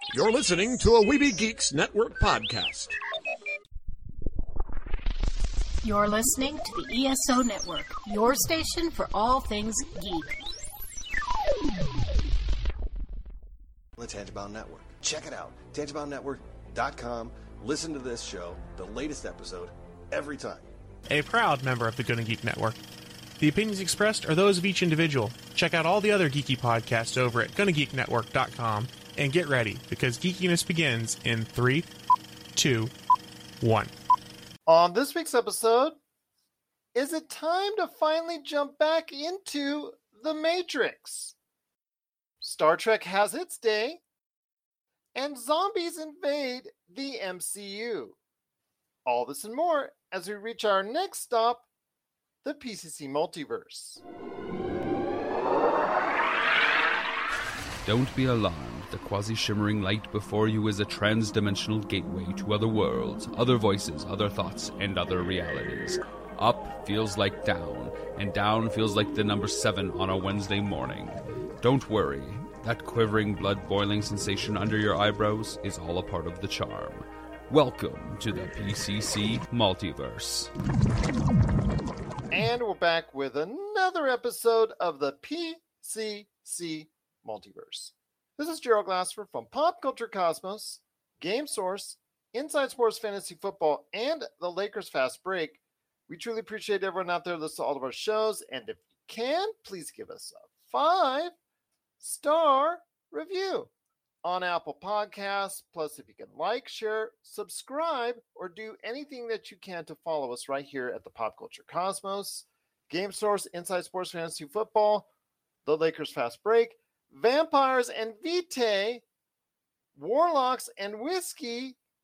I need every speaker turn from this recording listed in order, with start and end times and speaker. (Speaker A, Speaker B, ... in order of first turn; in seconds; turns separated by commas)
Speaker A: 0.1-3.0, Speaker B: 5.8-10.4, Speaker C: 14.0-20.7, Speaker D: 21.1-22.8, Speaker D: 23.4-31.9, Speaker D: 32.5-32.9, Speaker D: 33.6-33.9, Speaker E: 34.7-36.0, Speaker E: 37.0-41.4, Speaker E: 42.4-44.0, Speaker E: 45.1-48.2, Speaker E: 49.1-51.6, Speaker E: 52.4-54.0, Speaker F: 57.8-80.5, Speaker E: 82.3-101.3, Speaker E: 102.0-103.7, Speaker E: 104.2-115.1, Speaker E: 115.7-119.0, Speaker E: 120.0-121.8